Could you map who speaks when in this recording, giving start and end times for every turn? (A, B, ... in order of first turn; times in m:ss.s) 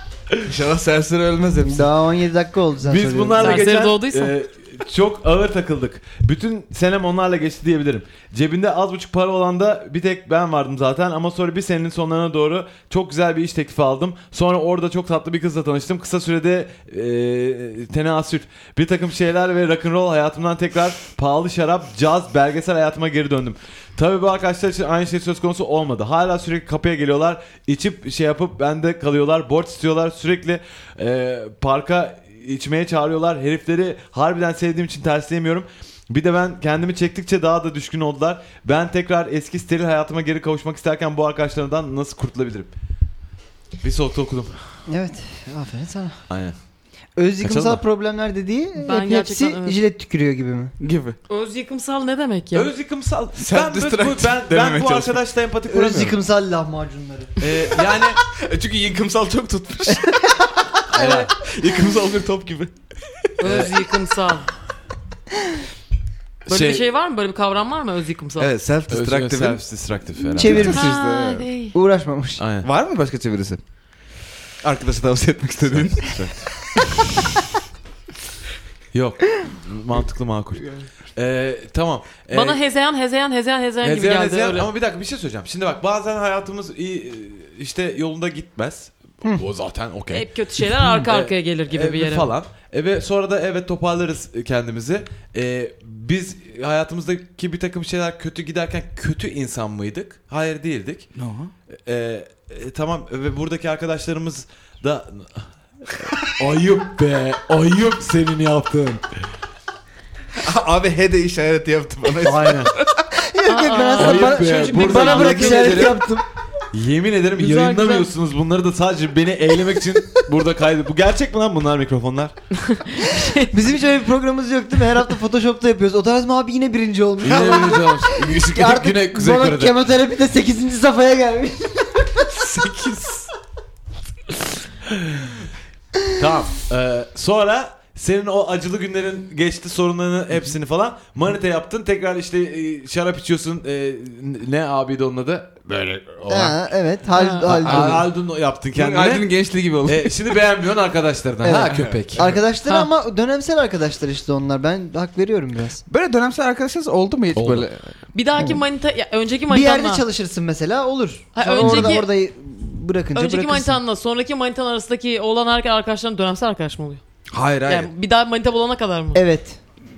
0:00.4-0:01.9 A
0:01.6-0:03.6 B
0:02.8-0:42.7 C
0:03.4-0:04.4 D
0:43.8-0:44.6 C
0:44.9-0:46.2 B
0:46.3-0:46.6 C
0:47.2-0:50.7 B
0:47.4-0:47.8 C
0:48.8-0:49.8 D
0:50.8-0:51.2 A
0:51.3-0:52.7 D
0:52.5-0:56.2 C
0:53.4-0:55.2 A
0:55.7-0:57.3 B
0:57.4-0:58.2 C
0:57.8-1:00.2 A
0:59.9-1:00.3 B
1:00.9-1:01.4 C
1:01.0-1:01.3 B
1:01.0-1:02.7 A
1:03.4-1:04.5 D
1:03.4-1:03.8 C
1:06.5-1:06.9 C
1:06.5-1:08.5 D
1:08.4-1:09.6 A
1:08.9-1:10.8 C
1:10.3-1:11.5 A
1:10.4-1:11.0 B
1:10.7-1:11.8 D
1:11.7-1:12.4 B
1:12.4-1:12.7 C
1:12.6-1:13.6 A
1:14.6-1:17.4 A
1:15.6-1:16.7 C
1:18.9-1:22.6 C
1:22.3-1:24.7 D
1:23.8-1:41.1 C
1:30.1-1:32.3 D
1:41.2-1:41.5 A
1:41.9-1:49.0 C
1:50.4-1:53.1 A
1:52.2-1:52.8 C
1:53.1-1:56.2 B
1:53.5-1:55.9 D
1:53.9-1:56.0 C
1:56.7-2:02.4 C
1:57.4-1:58.1 D
2:02.6-2:03.5 D
2:03.4-2:12.3 B
2:07.2-2:09.8 C
2:12.5-2:13.2 C
2:15.0-2:15.4 C
2:16.1-2:26.6 C
2:26.3-2:28.1 B
2:27.1-2:27.5 D
2:27.4-2:32.4 C
2:27.5-2:28.1 A
2:28.7-2:30.4 A
2:31.4-2:35.8 B
2:31.7-2:32.0 A
2:35.9-2:37.9 A
2:37.3-2:37.7 C
2:38.1-2:40.0 D
2:39.5-2:43.8 B
2:41.4-2:42.1 D
2:41.6-2:41.9 A
2:43.2-2:47.0 D
2:47.3-2:47.9 A
2:47.7-2:49.2 D
2:49.2-2:49.6 B